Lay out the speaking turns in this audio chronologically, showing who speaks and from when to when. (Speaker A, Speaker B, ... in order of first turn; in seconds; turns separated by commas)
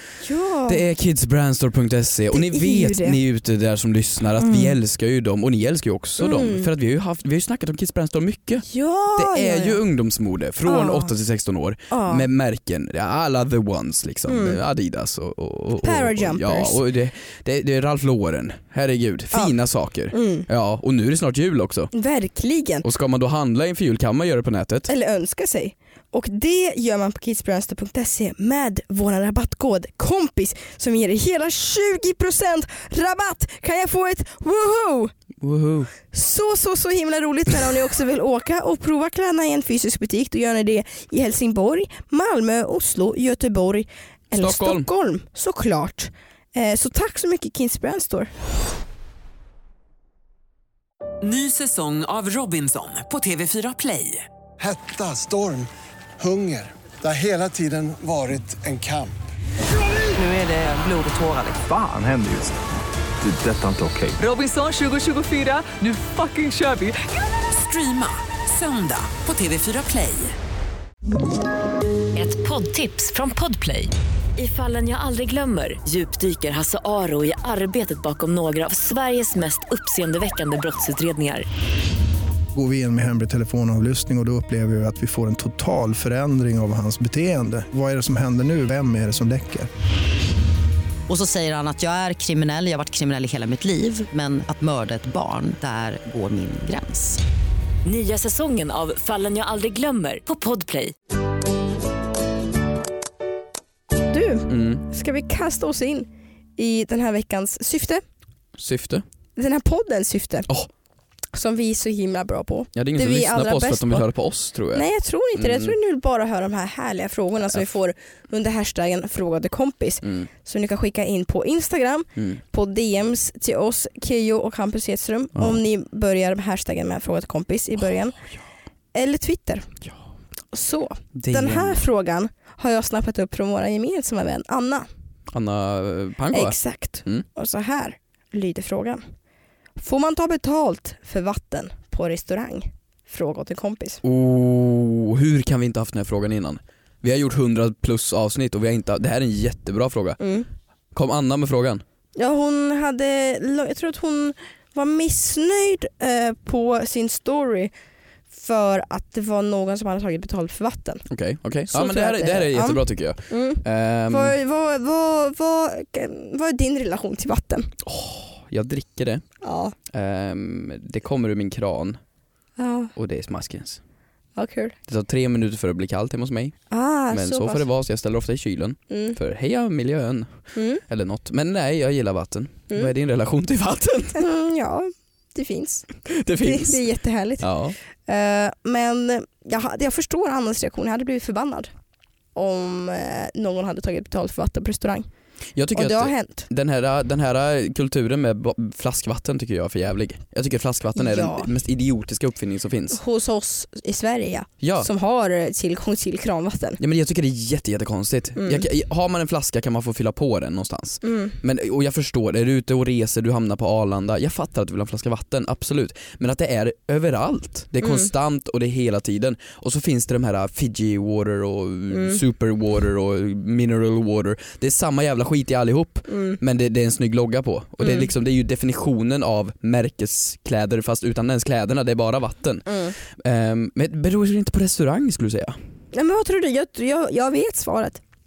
Speaker A: 0.2-0.8, Speaker B: 0.7-21.9, Speaker A: 2.3-3.2, Speaker A: 4.4-4.7, Speaker A: 6.2-6.7, Speaker A: 8.7-9.8, Speaker A: 10.7-11.1, Speaker A: 11.9-12.3, Speaker A: 14.3-14.6, Speaker A: 15.8-16.8, Speaker A: 20.1-20.5, Speaker A: 21.9-22.8, Speaker B: 22.8-24.9, Speaker A: 24.9-35.1, Speaker B: 35.4-35.9, Speaker A: 36.1-48.3, Speaker B: 44.3-44.9, Speaker C: 51.2-54.2, Speaker D: 54.6-59.1, Speaker E: 61.6-62.5, Speaker E: 63.2-64.2, Speaker C: 64.2-70.3, Speaker F: 72.1-81.5, Speaker G: 82.5-89.7, Speaker H: 91.1-97.2, Speaker F: 97.8-100.9, Speaker A: 104.1-108.0, Speaker B: 104.5-104.8, Speaker B: 108.6-109.0, Speaker A: 109.3-110.5, Speaker A: 111.3-114.1, Speaker B: 112.7-115.7, Speaker A: 114.7-128.2, Speaker A: 128.9-129.7, Speaker A: 130.5-134.9, Speaker B: 131.1-131.8, Speaker B: 135.3-137.2, Speaker A: 136.3-139.0, Speaker A: 139.8-144.0, Speaker B: 144.0-150.2, Speaker A: 150.2-150.5, Speaker B: 150.9-151.8, Speaker A: 152.2-157.7, Speaker A: 158.3-161.0, Speaker B: 161.1-164.3, Speaker A: 161.7-167.7, Speaker B: 167.8-169.2, Speaker A: 169.4-169.7, Speaker B: 169.9-172.0, Speaker A: 172.6-172.9, Speaker B: 172.9-173.8, Speaker A: 174.3-174.7, Speaker B: 174.9-176.6, Speaker A: 176.7-177.6, Speaker B: 177.1-180.3, Speaker A: 178.9-179.2, Speaker A: 180.5-180.8, Speaker B: 180.8-184.2, Speaker A: 184.1-185.9, Speaker B: 186.1-186.8, Speaker A: 186.4-187.5, Speaker B: 187.4-187.8, Speaker A: 188.1-191.7, Speaker A: 192.3-195.1, Speaker B: 195.5-203.0, Speaker A: 195.7-196.5, Speaker A: 200.9-201.5, Speaker A: 202.9-206.8, Speaker B: 204.6-204.9, Speaker B: 206.8-235.6, Speaker A: 208.3-208.7, Speaker A: 211.0-211.3, Speaker A: 217.8-218.1, Speaker A: 221.9-222.2, Speaker A: 226.1-226.4, Speaker A: 227.8-228.1, Speaker A: 232.7-232.9, Speaker A: 235.9-238.0